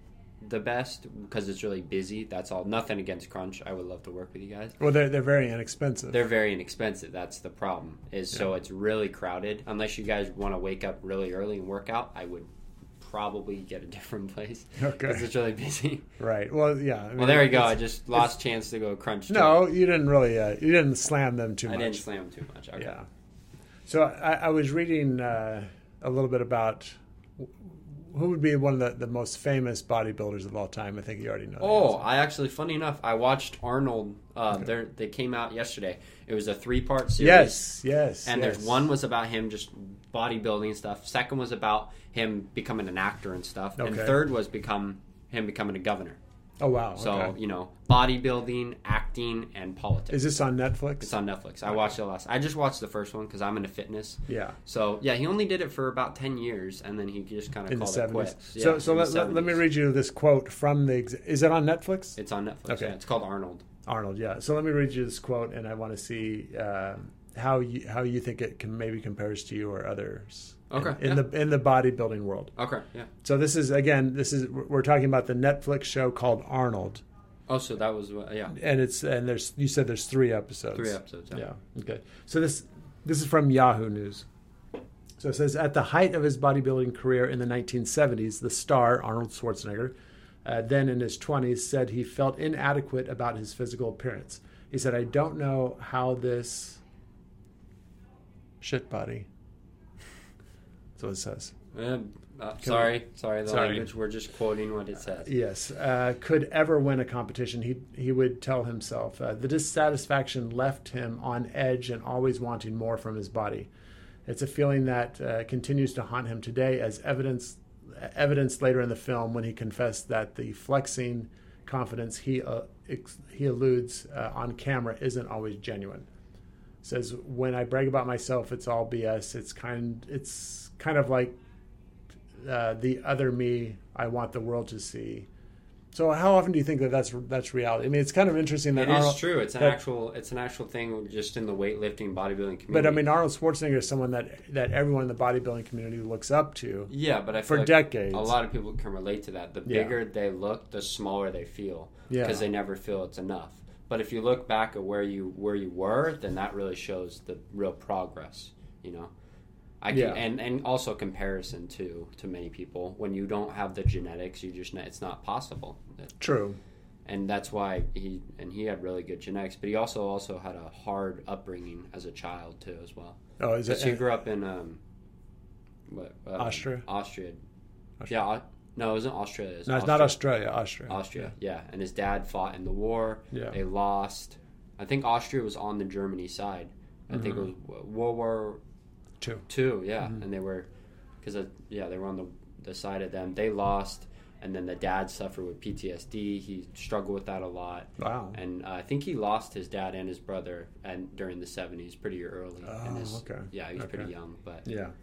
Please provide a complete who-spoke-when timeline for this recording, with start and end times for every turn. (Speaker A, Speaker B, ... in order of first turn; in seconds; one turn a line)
Speaker A: 0.4-4.8
Speaker B: 4.8-6.2
Speaker A: 6.1-16.1
Speaker B: 14.8-15.3
Speaker B: 16.2-18.3
Speaker A: 17.2-19.7
Speaker B: 19.3-22.0
Speaker A: 21.7-22.9
Speaker B: 22.8-23.1
Speaker B: 23.9-32.0
Speaker A: 31.6-37.6
Speaker B: 37.2-38.9
Speaker A: 38.2-46.2
Speaker B: 43.8-44.2
Speaker B: 46.6-47.4
Speaker A: 47.0-50.4
Speaker B: 50.1-51.2
Speaker A: 51.0-59.6
Speaker B: 54.3-54.6
Speaker B: 57.7-62.2
Speaker A: 62.2-63.6
Speaker B: 62.7-63.0
Speaker B: 63.9-72.5
Speaker A: 70.7-71.2
Speaker A: 72.6-73.1
Speaker B: 73.2-77.0
Speaker A: 77.5-78.6
Speaker B: 78.5-84.3
Speaker A: 80.7-81.5
Speaker B: 85.2-89.9
Speaker B: 90.5-96.8
Speaker B: 98.6-99.3
Speaker B: 101.0-101.5
Speaker A: 101.7-105.3
Speaker B: 102.6-102.9
Speaker B: 103.5-103.9
Speaker B: 105.2-113.7
Speaker B: 114.3-126.1
Speaker B: 126.8-131.3
Speaker B: 132.3-135.3
Speaker B: 135.9-139.8
Speaker A: 138.8-143.0
Speaker B: 142.7-146.9
Speaker A: 146.9-159.1
Speaker B: 147.5-148.4
Speaker B: 149.7-149.9
Speaker B: 152.1-152.5
Speaker A: 159.8-166.1
Speaker B: 159.9-160.2
Speaker B: 166.2-166.6
Speaker A: 167.1-174.8
Speaker B: 173.4-174.0
Speaker A: 175.9-177.4
Speaker B: 176.4-176.8
Speaker A: 178.1-180.2
Speaker B: 179.7-181.0
Speaker A: 180.9-188.6
Speaker B: 187.1-187.4
Speaker B: 189.2-189.5
Speaker A: 189.5-190.7
Speaker A: 191.2-204.7
Speaker B: 198.0-198.4
Speaker B: 202.6-204.1
Speaker B: 204.7-204.9